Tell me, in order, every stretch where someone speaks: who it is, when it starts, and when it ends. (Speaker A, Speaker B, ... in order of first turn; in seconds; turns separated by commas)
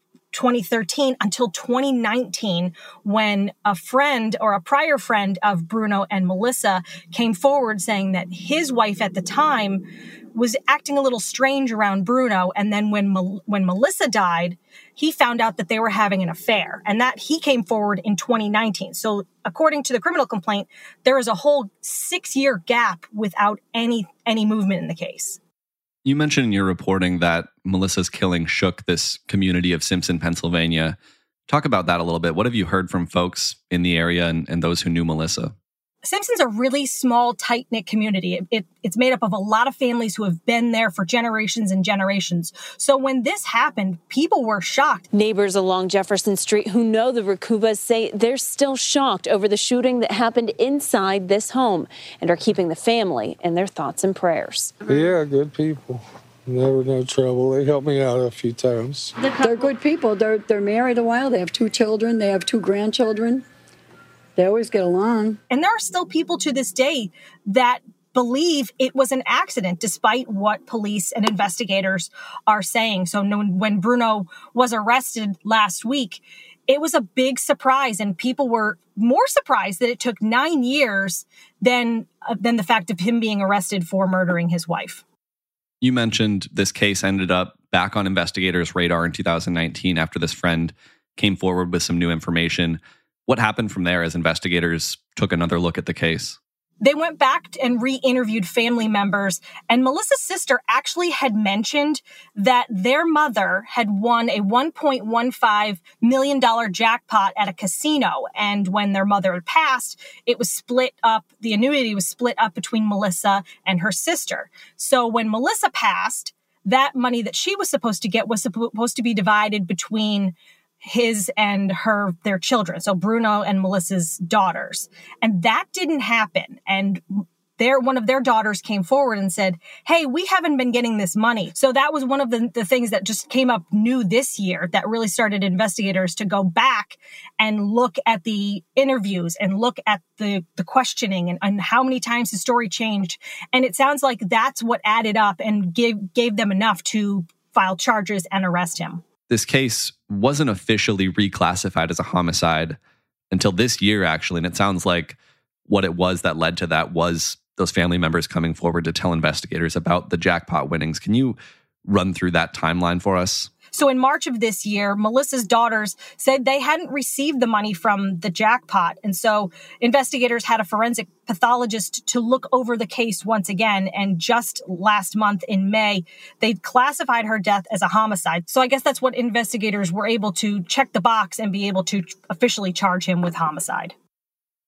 Speaker A: 0.3-25.4, Speaker B: 26.0-31.0, Speaker B: 31.5-35.5, Speaker A: 36.0-45.1, Speaker C: 45.1-54.7, Speaker D: 54.9-59.1, Speaker E: 59.2-63.4, Speaker E: 64.3-65.4, Speaker A: 65.5-85.0, Speaker B: 85.8-96.4, Speaker A: 96.8-127.0, Speaker A: 127.6-149.0, Speaker B: 149.3-152.8, Speaker B: 153.3-163.5, Speaker A: 163.7-183.9